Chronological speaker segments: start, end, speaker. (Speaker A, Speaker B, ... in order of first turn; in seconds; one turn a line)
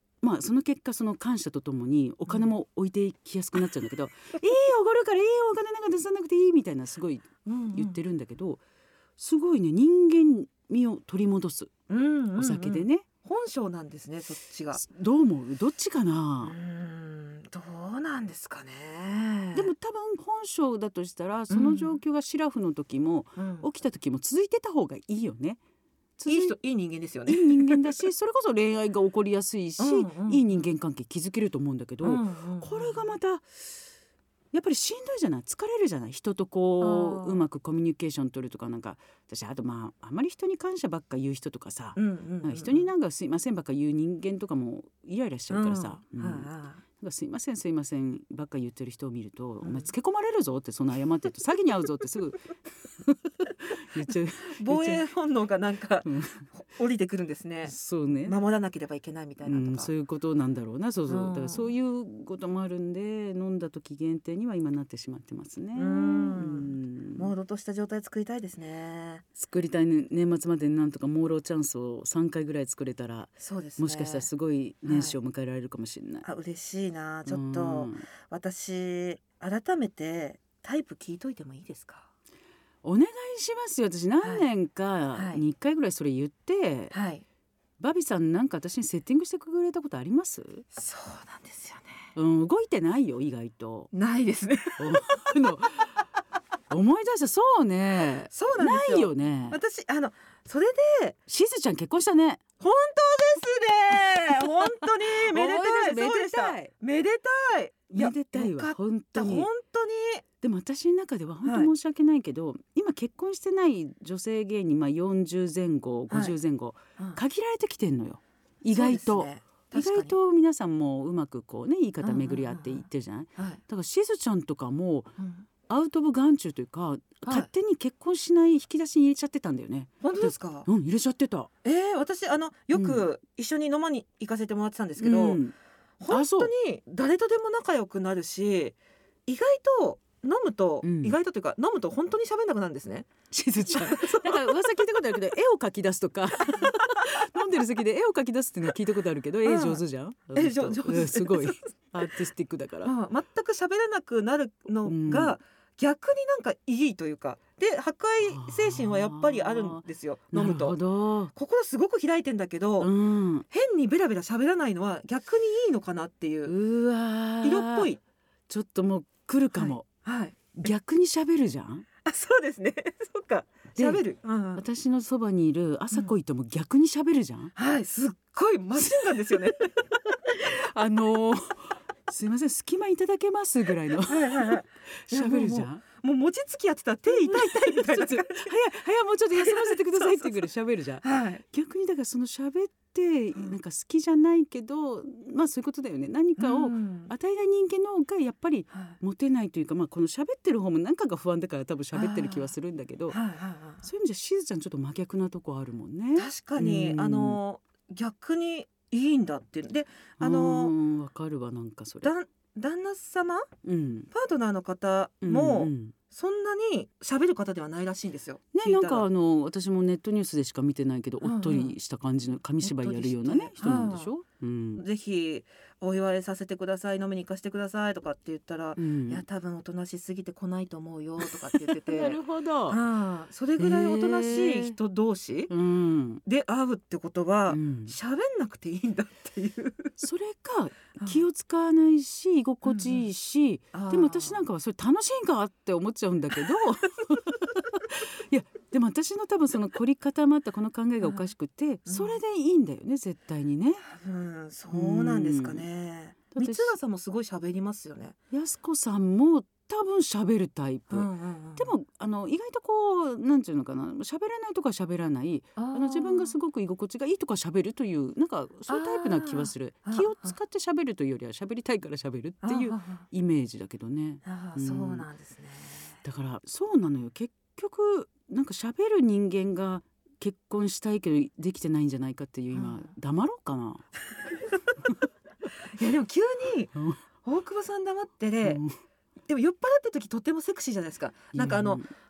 Speaker A: 0.2-8.6
Speaker B: 7.4-8.0
Speaker A: 9.2-11.7
Speaker B: 11.9-14.8
Speaker A: 12.3-13.1
Speaker A: 14.7-16.5
Speaker B: 16.4-19.7
Speaker A: 19.5-25.6
Speaker B: 21.5-22.0
Speaker B: 23.4-23.7
Speaker A: 26.2-26.6
Speaker B: 26.2-27.9
Speaker A: 27.2-33.8
Speaker B: 29.8-30.6
Speaker B: 32.0-33.1
Speaker A: 34.5-55.0
Speaker B: 36.8-37.4
Speaker B: 42.0-42.9
Speaker B: 45.5-46.8
Speaker B: 49.6-49.9
Speaker B: 54.5-59.9
Speaker A: 56.0-56.4
Speaker A: 57.6-58.4
Speaker A: 59.4-67.3
Speaker B: 61.1-61.7
Speaker B: 65.7-69.2
Speaker A: 69.3-76.2
Speaker B: 73.4-74.3
Speaker B: 74.8-75.2
Speaker B: 76.2-82.1
Speaker A: 77.3-78.0
Speaker A: 82.8-86.9
Speaker B: 85.1-85.4
Speaker B: 86.9-87.2
Speaker A: 87.8-90.7
Speaker B: 90.7-92.1
Speaker A: 92.1-93.9
Speaker B: 93.9-95.3
Speaker A: 94.8-96.0
Speaker A: 96.7-99.6
Speaker B: 98.3-101.2
Speaker A: 101.3-102.4
Speaker B: 102.6-110.2
Speaker A: 104.6-106.7
Speaker A: 107.9-109.5
Speaker A: 110.4-125.2
Speaker B: 111.4-111.7
Speaker B: 116.1-116.3
Speaker B: 118.7-120.1
Speaker B: 122.0-122.8
Speaker B: 125.2-125.5
Speaker A: 125.7-131.5
Speaker B: 130.0-130.7
Speaker B: 131.6-135.4
Speaker A: 132.7-133.0
Speaker A: 135.0-135.5
Speaker B: 136.0-143.1
Speaker A: 136.1-136.5
Speaker A: 140.8-141.2
Speaker A: 143.3-152.9
Speaker B: 143.7-144.4
Speaker B: 146.4-146.8
Speaker B: 149.4-149.8
Speaker B: 150.3-151.6
Speaker B: 152.8-160.8
Speaker A: 154.8-155.4
Speaker A: 158.2-161.3
Speaker B: 161.3-162.9
Speaker A: 162.8-163.4
Speaker B: 163.5-166.5
Speaker A: 166.4-167.9
Speaker B: 167.4-168.0
Speaker A: 168.5-169.9
Speaker B: 169.5-170.7
Speaker A: 170.6-171.8
Speaker B: 172.0-174.6
Speaker A: 173.7-174.0
Speaker A: 174.6-177.5
Speaker B: 177.6-179.7
Speaker A: 180.2-185.8
Speaker B: 184.0-188.5
Speaker A: 187.1-203.2
Speaker B: 189.3-190.4
Speaker B: 191.0-191.4
Speaker B: 196.4-197.1
Speaker B: 198.7-199.0
Speaker B: 201.9-202.5
Speaker B: 203.1-203.8
Speaker A: 203.8-207.4
Speaker B: 206.2-210.7
Speaker A: 210.2-212.1
Speaker B: 212.0-213.5
Speaker A: 213.6-214.1
Speaker B: 214.1-219.1
Speaker A: 215.2-215.9
Speaker A: 218.5-224.8
Speaker B: 221.2-221.8
Speaker B: 222.6-224.1
Speaker B: 224.8-235.5
Speaker A: 228.8-229.2
Speaker A: 231.5-232.8
Speaker A: 233.6-234.8
Speaker A: 235.5-236.2
Speaker B: 236.2-239.9
Speaker A: 237.5-237.9
Speaker A: 240.0-253.8
Speaker B: 242.6-243.1
Speaker B: 243.7-244.4
Speaker B: 251.8-252.2
Speaker B: 253.8-258.1
Speaker A: 254.7-255.6
Speaker A: 256.3-256.7
Speaker A: 258.3-275.1
Speaker B: 260.9-261.7
Speaker B: 265.6-266.4
Speaker B: 268.7-270.3
Speaker B: 272.4-273.1
Speaker B: 274.2-276.0
Speaker A: 276.0-283.9
Speaker B: 282.5-282.9
Speaker B: 285.7-286.7
Speaker A: 286.7-287.0
Speaker B: 287.2-288.6
Speaker A: 288.4-288.8
Speaker B: 289.3-291.8
Speaker A: 291.3-291.9